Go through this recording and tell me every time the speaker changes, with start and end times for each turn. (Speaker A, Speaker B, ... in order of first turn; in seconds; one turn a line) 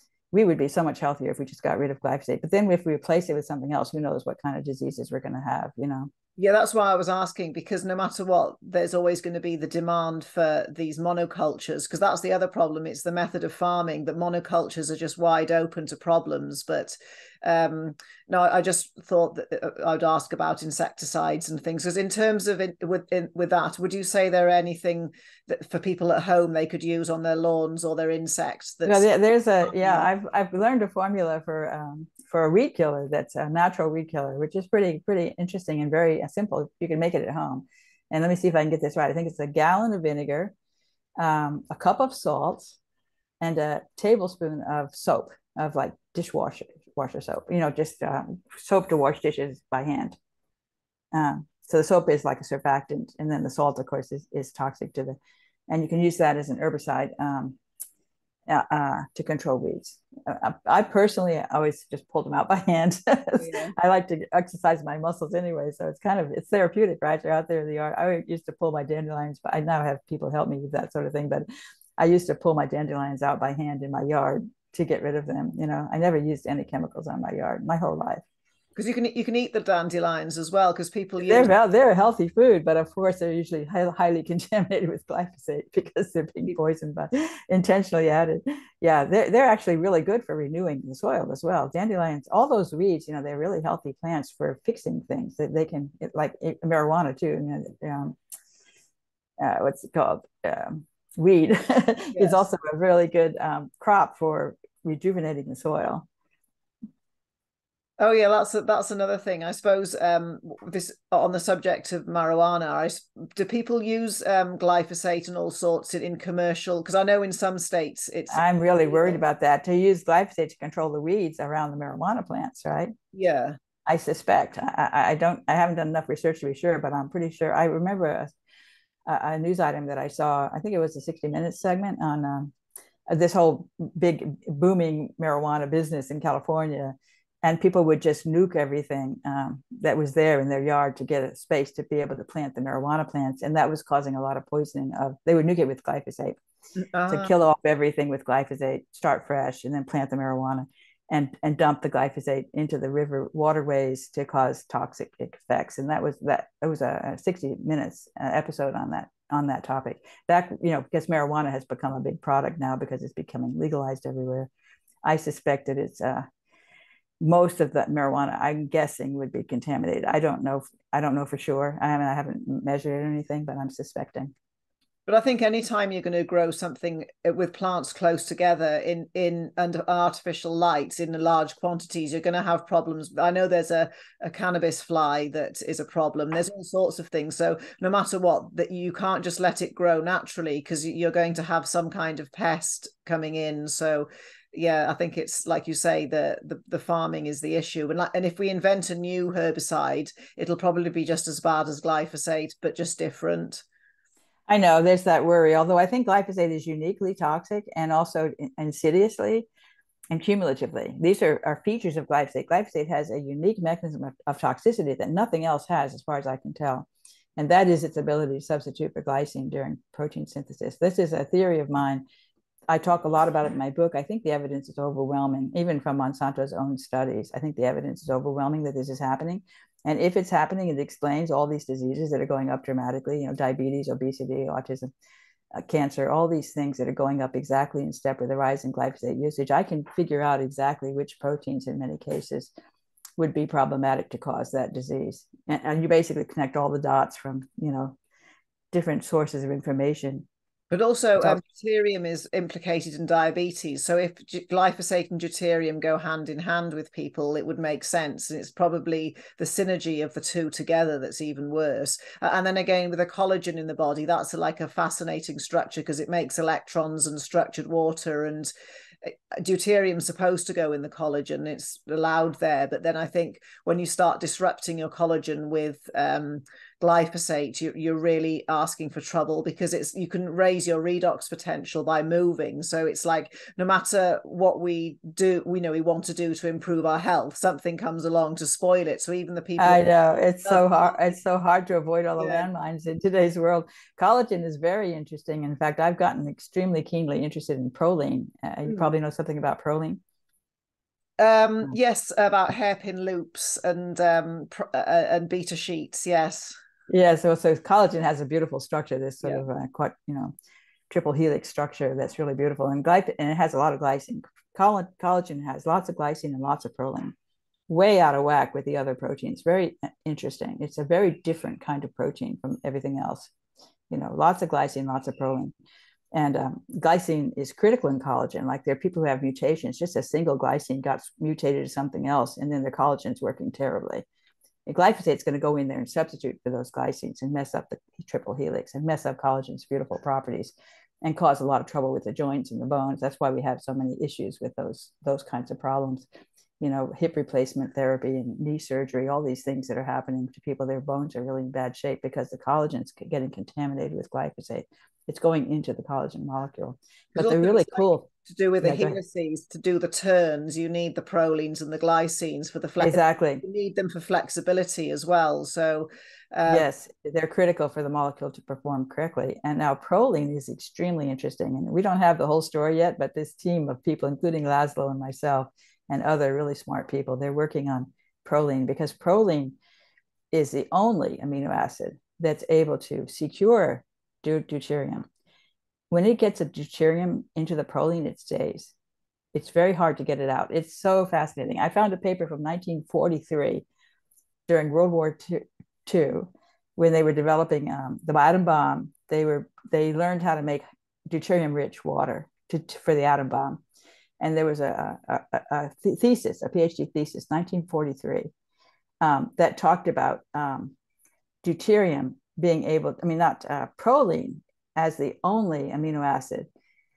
Speaker A: 0.3-6.1
Speaker B: 6.4-29.1
Speaker A: 28.9-40.5
Speaker B: 29.6-30.1
Speaker A: 41.2-42.8
Speaker A: 43.4-50.2
Speaker A: 51.1-57.6
Speaker A: 58.5-71.5
Speaker B: 63.4-63.7
Speaker A: 72.0-78.2
Speaker B: 78.8-81.5
Speaker A: 81.2-98.2
Speaker A: 99.4-106.1
Speaker B: 102.1-102.4
Speaker B: 108.0-119.2
Speaker A: 118.3-122.9
Speaker B: 123.1-123.5
Speaker A: 123.8-128.3
Speaker A: 129.1-132.5
Speaker A: 133.1-146.4
Speaker B: 146.8-147.3
Speaker A: 147.1-164.5
Speaker A: 165.0-166.3
Speaker A: 167.2-174.3
Speaker B: 175.1-203.6
Speaker A: 204.5-209.5
Speaker A: 210.1-222.0
Speaker A: 222.7-234.9
Speaker A: 235.5-242.5
Speaker A: 243.2-247.9
Speaker A: 248.7-250.2
Speaker B: 250.7-289.9
Speaker A: 289.6-300.0
Speaker B: 290.4-291.0
Speaker B: 292.2-292.5
Speaker B: 301.2-306.6
Speaker A: 306.9-310.3
Speaker A: 310.9-317.1
Speaker A: 317.7-323.3
Speaker A: 323.9-325.5
Speaker A: 326.1-334.0
Speaker A: 334.6-346.1
Speaker A: 346.6-358.1
Speaker B: 357.1-366.6
Speaker A: 358.6-359.0
Speaker A: 362.8-363.4
Speaker A: 366.5-379.5
Speaker A: 380.3-385.1
Speaker A: 385.9-388.7
Speaker A: 389.3-393.6
Speaker A: 394.5-403.6
Speaker A: 404.2-408.3
Speaker A: 409.0-410.7
Speaker A: 411.4-416.5